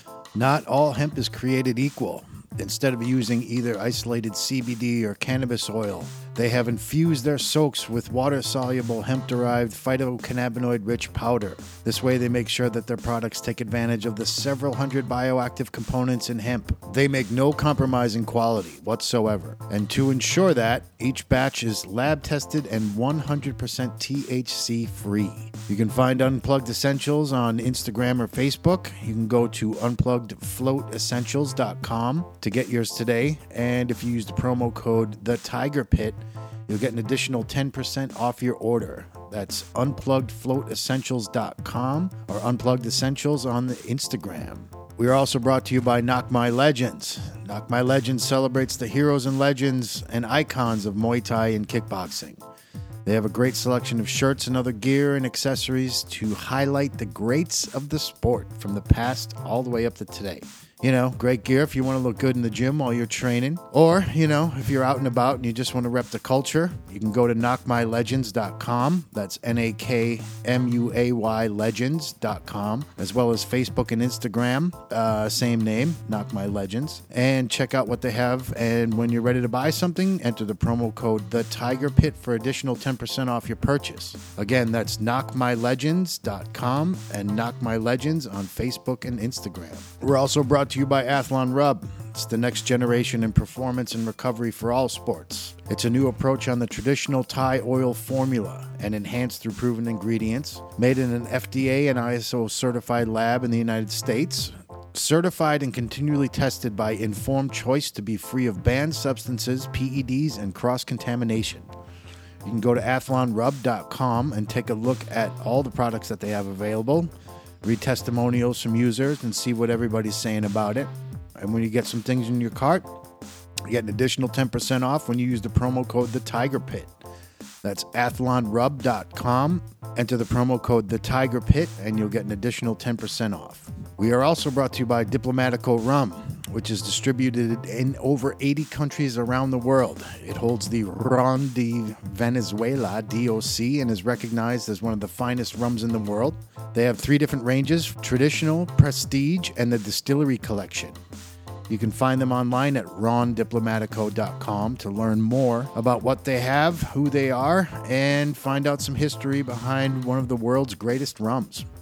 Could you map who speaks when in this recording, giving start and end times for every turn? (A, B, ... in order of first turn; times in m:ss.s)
0:00.4-0:52.4 A
0:53.0-1:51.7 A
1:52.4-1:57.1 A
1:57.6-2:02.9 A
2:03.7-2:06.9 A
2:07.6-2:31.0 A
2:31.7-2:41.7 A